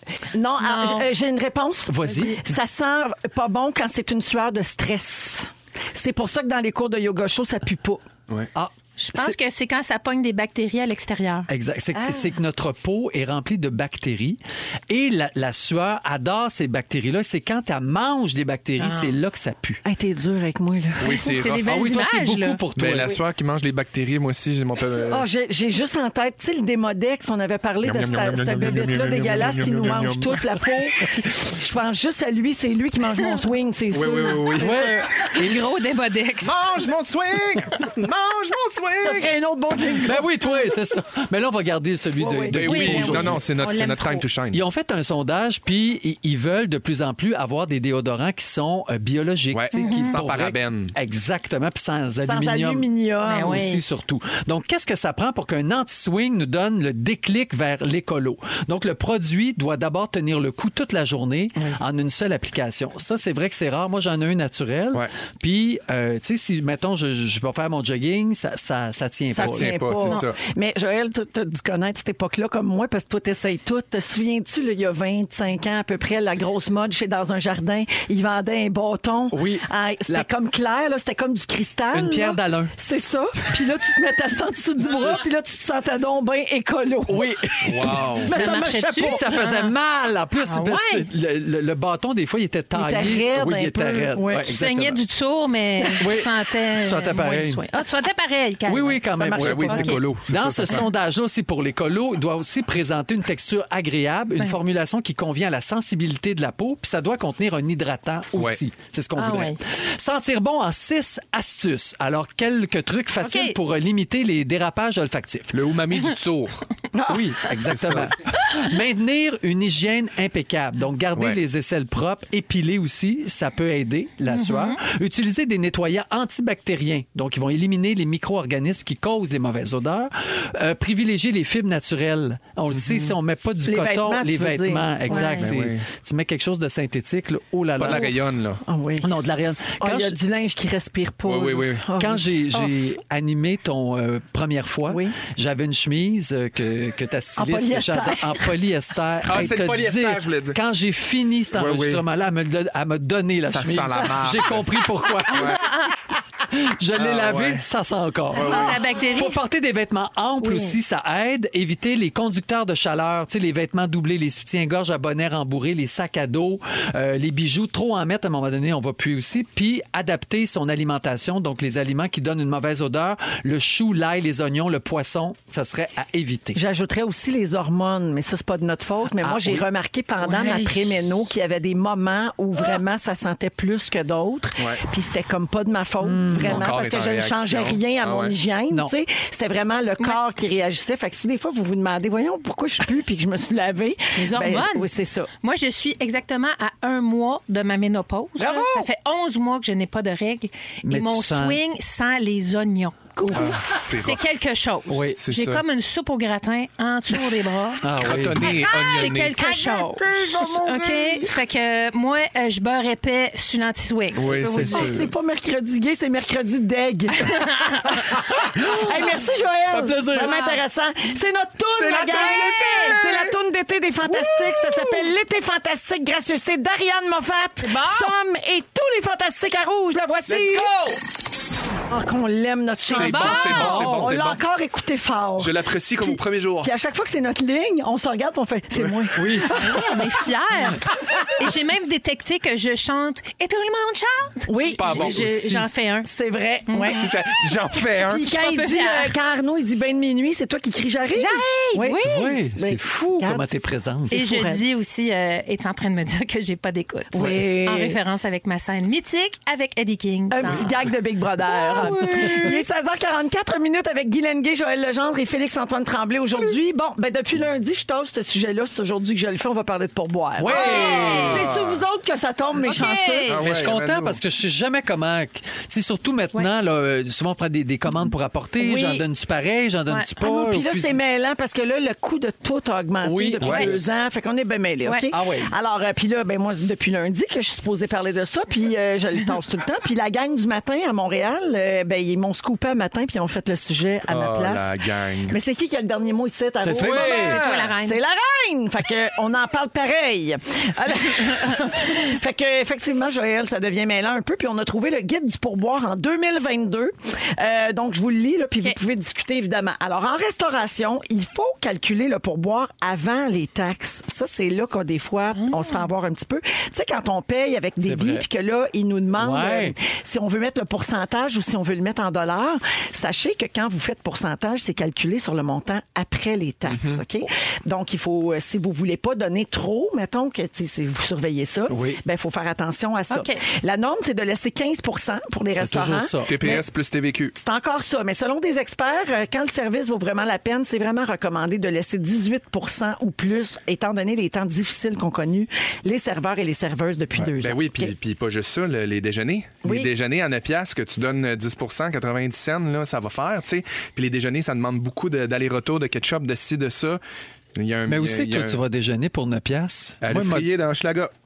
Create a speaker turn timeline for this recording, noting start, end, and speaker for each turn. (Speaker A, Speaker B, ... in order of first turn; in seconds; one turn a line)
Speaker A: 0.3-8.0
Speaker B: 0.6-1.1
Speaker C: 1.9-2.4
Speaker C: 8.6-9.4
Speaker B: 9.0-11.5
Speaker C: 11.5-19.8
Speaker A: 11.9-12.4
Speaker B: 18.8-19.1
Speaker A: 19.8-21.1
Speaker D: 21.0-21.8
Speaker B: 21.0-22.6
Speaker C: 21.6-23.2
Speaker D: 22.8-25.2
Speaker A: 25.1-34.8
Speaker D: 27.8-30.6
Speaker D: 33.9-34.7
Speaker C: 34.6-35.0
Speaker B: 34.6-36.6
Speaker D: 36.4-39.3
Speaker A: 39.0-40.5
Speaker C: 40.0-43.4
Speaker A: 42.2-43.3
Speaker D: 42.5-44.6
Speaker B: 42.7-44.3
Speaker C: 44.5-52.9
Speaker D: 49.5-51.0
Speaker B: 49.7-50.2
Speaker A: 52.2-53.7
Speaker B: 53.3-53.8
Speaker C: 53.4-70.1
Speaker A: 69.3-89.4
Speaker D: 69.4-70.4
Speaker C: 79.3-80.3
Speaker C: 81.9-82.7
Speaker C: 87.1-95.0
Speaker D: 87.6-88.3
Speaker B: 88.3-89.7
Speaker B: 90.4-91.1
Speaker A: 92.7-94.5
Speaker B: 94.5-100.0
Speaker C: 96.0-97.6
Speaker C: 98.7-115.5
Speaker A: 99.1-100.0
Speaker D: 99.4-100.9
Speaker D: 108.3-108.6
Speaker B: 109.2-109.6
Speaker B: 113.2-113.5
Speaker D: 115.5-116.6
Speaker A: 116.9-117.3
Speaker C: 117.1-138.1
Speaker D: 117.5-118.2
Speaker B: 124.3-124.8
Speaker D: 132.7-133.2
Speaker A: 133.7-135.4
Speaker B: 135.1-135.5
Speaker D: 135.4-135.8
Speaker D: 137.8-138.6
Speaker A: 137.8-138.1
Speaker A: 138.6-142.8
Speaker C: 139.0-140.2
Speaker D: 141.3-141.9
Speaker C: 142.0-155.7
Speaker A: 144.9-145.2
Speaker A: 147.4-148.6
Speaker D: 149.3-150.6
Speaker D: 151.5-152.1
Speaker D: 153.5-155.6
Speaker B: 155.3-155.9
Speaker C: 156.4-176.6
Speaker D: 156.9-157.7
Speaker B: 158.3-159.4
Speaker D: 158.3-158.8
Speaker B: 160.4-160.8
Speaker A: 176.6-195.3
Speaker C: 179.2-179.6
Speaker B: 180.2-180.7
Speaker C: 186.0-186.8
Speaker D: 186.4-188.3
Speaker B: 194.1-194.9
Speaker B: 195.4-207.8
Speaker A: 198.4-198.8
Speaker C: 200.8-201.6
Speaker A: 203.2-203.9
Speaker D: 203.3-204.3
Speaker C: 204.9-205.2
Speaker D: 205.2-205.6
Speaker C: 207.8-208.6
Speaker D: 208.0-209.3
Speaker B: 208.4-214.5
Speaker A: 208.9-211.4
Speaker D: 214.2-215.1
Speaker C: 214.4-215.1
Speaker A: 214.4-230.7
Speaker B: 217.2-218.8
Speaker C: 219.7-220.3
Speaker B: 220.2-220.6
Speaker D: 221.7-223.3
Speaker B: 221.9-222.9
Speaker C: 224.5-224.8
Speaker B: 227.6-228.1
Speaker D: 230.3-231.0
Speaker A: 231.9-240.3
Speaker D: 232.9-234.4
Speaker B: 232.9-234.0
Speaker D: 235.4-236.7
Speaker C: 239.1-239.5
Speaker B: 239.6-246.1
Speaker A: 244.5-245.2
Speaker D: 244.8-245.3
Speaker C: 244.9-245.6
Speaker A: 246.0-247.2
Speaker B: 246.7-247.0
Speaker D: 247.0-248.2
Speaker A: 248.0-254.7
Speaker B: 248.2-249.2
Speaker B: 251.2-252.4
Speaker C: 252.0-254.2
Speaker B: 254.1-260.7
Speaker A: 257.1-258.0
Speaker C: 257.1-257.5
Speaker A: 260.3-273.4
Speaker C: 261.5-262.6
Speaker C: 270.4-271.5
Speaker B: 270.5-271.4
Speaker D: 271.0-271.8
Speaker B: 272.6-273.4
Speaker D: 273.3-274.2
Speaker C: 273.4-281.0
Speaker A: 278.6-279.1
Speaker A: 280.2-294.8
Speaker C: 283.0-284.0
Speaker D: 283.4-283.7
Speaker C: 285.1-285.5
Speaker D: 294.1-295.4
Speaker A: 295.3-336.7
Speaker C: 296.6-297.4
Speaker D: 296.6-297.7
Speaker B: 296.9-298.0
Speaker B: 315.4-315.8
Speaker C: 317.8-318.2
Speaker C: 319.2-319.8
Speaker D: 326.7-327.0
Speaker C: 331.7-332.0
Speaker B: 333.1-333.4
Speaker C: 335.5-336.4
Speaker D: 336.3-337.3
Speaker A: 337.3-347.9
Speaker D: 347.2-357.0
Speaker A: 349.6-349.9
Speaker D: 357.6-358.6
Speaker C: 357.9-360.5
Speaker D: 360.0-361.1